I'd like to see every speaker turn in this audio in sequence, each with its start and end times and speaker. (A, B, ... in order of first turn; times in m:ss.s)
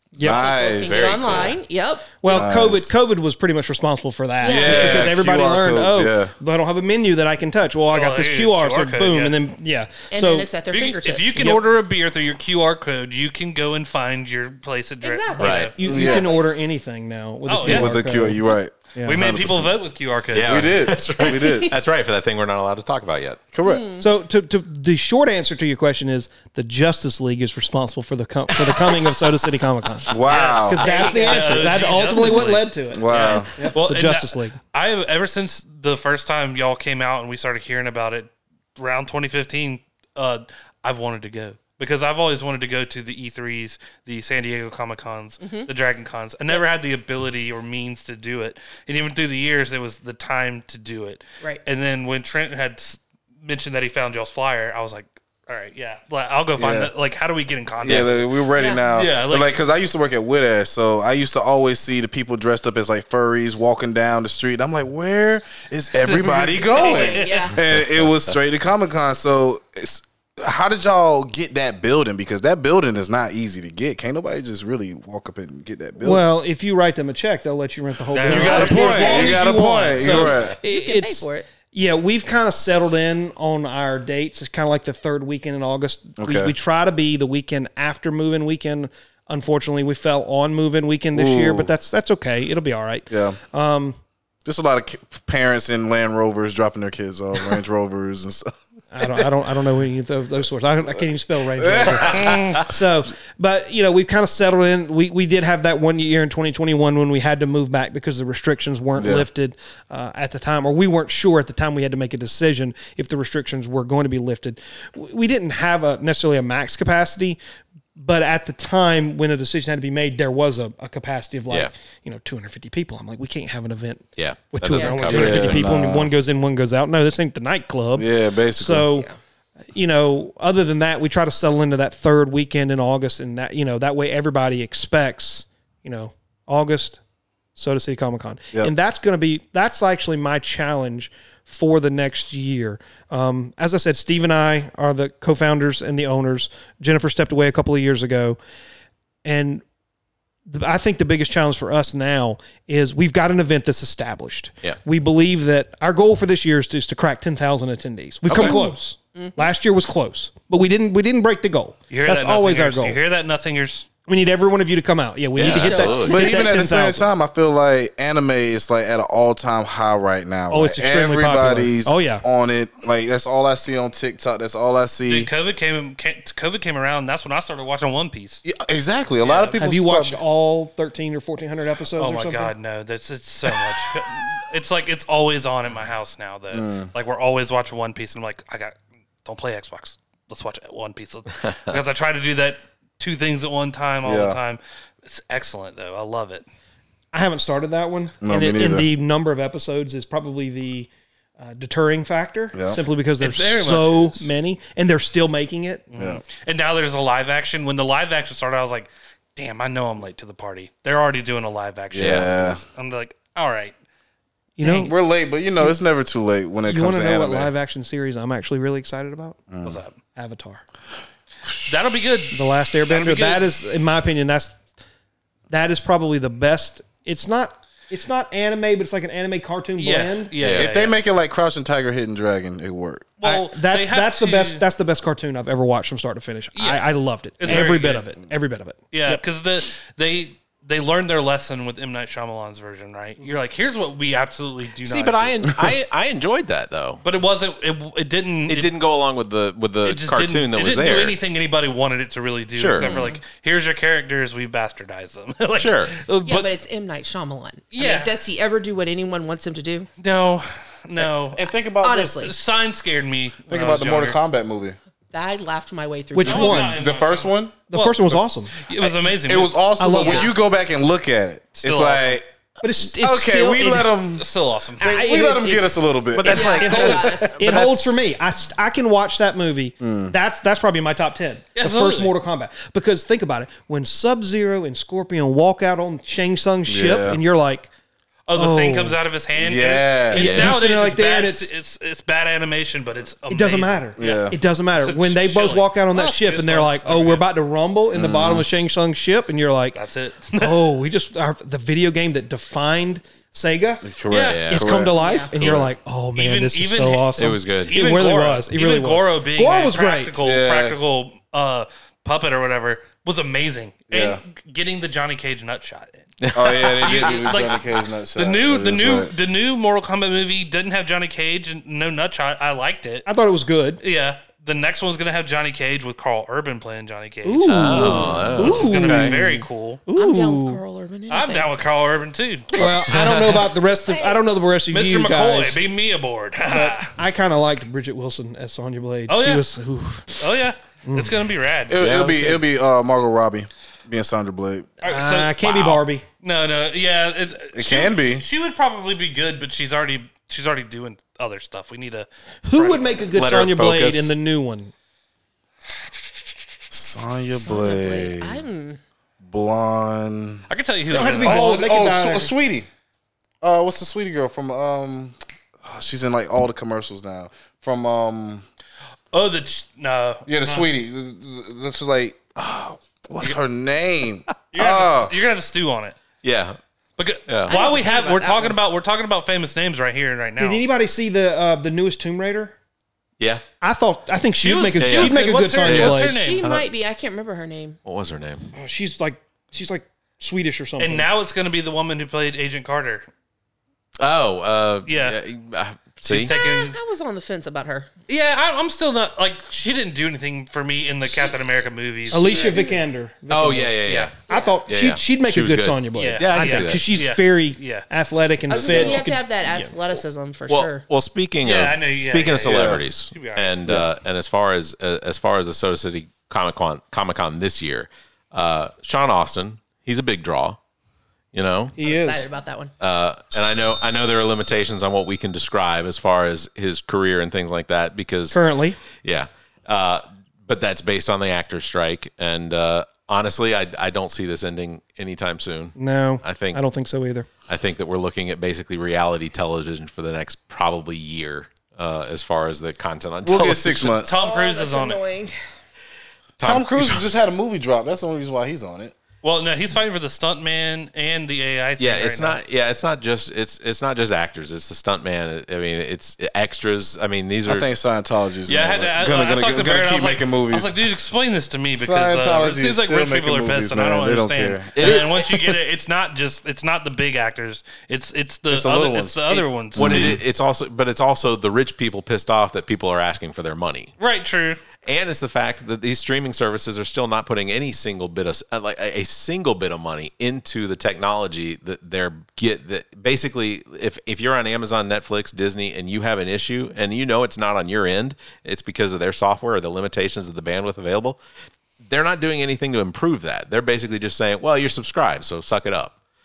0:00.2-0:00.5 A
0:00.2-0:01.5 B
0:00.2-0:02.4 C
0:00.8-0:01.5 D
0:02.2-0:10.5 A
0:02.3-0:02.9 B
0:04.4-0:05.0 C
0:04.4-0:06.3 B
0:07.9-0:09.4 E
0:10.1-0:11.5 C
0:10.6-0:15.8 E
0:11.4-0:11.7 A
0:15.0-0:16.4 C
0:15.4-0:15.7 D
0:15.8-0:18.4 A
0:15.8-0:16.4 B
0:17.5-0:17.9 E
0:17.6-0:19.7 B
0:19.0-0:19.4 A
0:19.0-0:20.8 E
0:20.3-0:23.4 D
0:20.4-0:21.7 B
0:21.2-0:21.6 C
0:23.5-0:23.9 B
0:23.6-0:24.0 C
0:24.0-0:34.6 A
0:30.1-0:30.8 B
0:30.2-0:58.3 E
0:30.7-0:32.2 C
0:32.9-0:33.5 B
0:45.4-0:45.7 C
0:56.6-0:56.9 B
0:57.8-1:16.3 B
0:58.6-0:58.9 C
0:58.9-0:59.6 E
1:06.0-1:07.5 E
1:06.7-1:07.6 C
1:16.0-1:34.0 A
1:18.1-1:20.2 E
1:18.3-1:20.6 B
1:20.0-1:21.5 C
1:26.2-1:26.6 B
1:31.2-1:31.7 B
1:33.1-1:33.4 B
1:34.4-1:39.3 B
1:38.9-1:57.4 A
1:41.6-1:42.6 B
1:42.1-1:42.7 E
1:49.0-1:49.3 B
1:58.0-2:08.1 A
2:04.2-2:05.7 D
2:04.7-2:05.1 C
2:05.1-2:06.1 B
2:08.0-2:08.9 B
2:08.6-2:09.1 A
2:09.7-2:17.0 A
2:17.6-2:28.4 A
2:29.2-2:29.6 A
2:30.5-2:43.0 A
2:38.3-2:38.6 D
2:38.3-2:39.3 C
2:41.9-2:43.9 E
2:44.1-2:47.1 A
2:45.4-2:46.3 D
2:45.4-2:46.4 C
2:46.0-2:55.3 B
2:50.5-2:52.2 A
2:55.1-2:58.4 E
2:58.4-3:00.2 B
2:59.2-2:59.6 E
2:59.6-3:02.5 A
3:02.0-3:16.4 E
3:06.5-3:06.9 B
3:14.0-3:14.4 B
3:17.1-3:25.9 A
3:18.2-3:18.9 B
3:22.5-3:22.8 B
3:23.2-3:24.3 E
3:25.9-3:33.7 E
3:26.0-3:26.2 B
3:31.9-3:32.6 B
3:32.0-3:32.3 D
3:34.6-3:35.0 A
3:34.6-3:37.5 B
3:36.7-3:39.4 A
3:39.5-3:39.8 B
3:39.6-3:40.0 E
3:40.2-3:40.6 A
3:41.6-3:43.5 E
3:42.3-3:44.6 A
3:45.5-3:50.3 A
3:49.8-3:51.0 E
3:50.4-3:50.7 D
3:50.5-3:53.1 B
3:53.2-3:54.6 E
3:53.2-3:59.2 A
3:56.6-3:58.1 E
3:58.9-4:05.4 E
4:04.8-4:07.0 D
4:07.0-4:08.7 E
4:08.5-4:11.2 D
4:09.8-4:16.5 E
4:12.6-4:12.9 D
4:12.8-4:13.2 B
4:12.8-4:13.1 C
4:15.6-4:15.9 D
4:16.2-4:19.9 C
4:17.7-4:18.1 E
4:20.0-4:21.4 E
4:21.0-4:22.3 B
4:21.8-4:22.4 C
4:22.2-4:24.2 E
4:23.5-4:24.8 B
4:25.1-4:26.7 C
4:26.1-4:26.8 A
4:26.2-4:28.1 E
4:26.5-4:27.6 B
4:27.7-4:28.6 A
4:28.6-4:29.6 E
4:28.8-4:32.2 B
4:29.8-4:30.3 A
4:30.0-4:30.3 C
4:31.6-4:32.2 E
4:32.6-4:33.9 A
4:32.8-4:34.3 B
4:34.2-4:34.9 E
4:34.8-4:37.0 B
4:34.8-4:35.8 A
4:36.1-4:38.1 D
4:36.3-4:37.4 C
4:36.4-4:47.7 A
4:39.8-4:40.2 B
4:41.6-4:42.1 E
4:46.7-4:47.2 B
4:48.3-4:54.2 E
4:48.4-4:49.0 A
4:49.4-4:50.4 B
4:50.1-4:51.5 A
4:50.2-4:50.6 D
4:53.3-4:59.8 A
4:54.0-4:54.4 B
4:54.8-4:57.3 E
4:57.9-4:58.5 B
4:59.7-5:00.7 E
5:00.4-5:04.0 A
5:03.8-5:05.0 B
5:04.1-5:04.5 E
5:04.3-5:04.7 D
5:04.5-5:10.2 A
5:04.9-5:05.6 C
5:06.2-5:07.1 E
5:07.2-5:07.8 D
5:07.6-5:16.3 E
5:10.2-5:10.8 B
5:13.9-5:14.2 B
5:16.2-5:17.4 D
5:16.3-5:19.1 B
5:16.8-5:23.1 E
5:23.1-5:23.8 A
5:23.8-5:29.8 E
5:27.2-5:30.6 A
5:27.4-5:29.2 D
5:30.0-5:31.6 C
5:31.1-5:33.2 E
5:32.6-5:34.2 C
5:32.6-5:35.6 A
5:34.7-5:36.9 E
5:36.5-5:40.3 A
5:39.1-5:39.4 E
5:40.2-5:42.2 E
5:40.9-5:41.2 A
5:41.7-5:44.7 B
5:44.8-5:53.0 E
5:44.8-5:46.0 A
5:47.6-5:48.2 B
5:52.4-5:54.7 A
5:53.1-5:54.1 D
5:56.7-5:58.4 B
5:57.3-5:58.8 C
5:59.2-6:02.7 B
6:00.5-6:01.6 E
6:00.9-6:02.3 A
6:03.4-6:08.4 B
6:09.1-6:10.6 E
6:10.3-6:15.1 B
6:14.5-6:16.0 E
6:16.2-6:16.6 D
6:17.0-6:20.6 E
6:17.3-6:17.6 D
6:17.5-6:18.6 C
6:20.4-6:22.6 A
6:23.6-6:26.2 A
6:24.4-6:26.5 E
6:24.8-6:26.7 D
6:26.0-6:27.8 C
6:27.8-6:28.5 D
6:28.6-6:31.1 A
6:30.8-6:33.1 E
6:34.0-6:36.3 D
6:34.9-6:35.2 E
6:36.0-6:36.8 E
6:36.3-6:37.9 C
6:38.1-6:42.5 E
6:41.0-6:41.4 C
6:42.1-6:42.8 C
6:42.1-6:49.7 A
6:43.3-6:44.1 D
6:44.3-6:44.6 C
6:44.7-6:46.8 D
6:46.0-6:47.9 E
6:48.5-6:50.8 C
6:50.5-7:00.6 D
6:51.4-6:53.6 E
6:52.4-6:52.8 B
7:01.3-7:01.8 D
7:01.8-7:02.3 A
7:01.8-7:02.7 C
7:02.8-7:08.4 D
7:08.3-7:08.8 A
7:09.0-7:16.6 D
7:15.8-7:17.3 A
7:17.5-7:24.1 D
7:23.2-7:24.2 B
7:24.0-7:25.0 E
7:24.1-7:25.3 C
7:26.4-7:27.0 D
7:26.4-7:29.0 B
7:29.2-7:32.4 E
7:31.8-7:37.7 D
7:37.5-7:40.8 B
7:38.5-7:50.2 E
7:41.7-7:45.3 B
7:44.8-7:45.1 D
7:48.5-7:50.2 B
7:49.8-7:53.9 D
7:54.0-7:54.6 E
7:54.8-8:11.2 D
8:11.8-8:15.9 D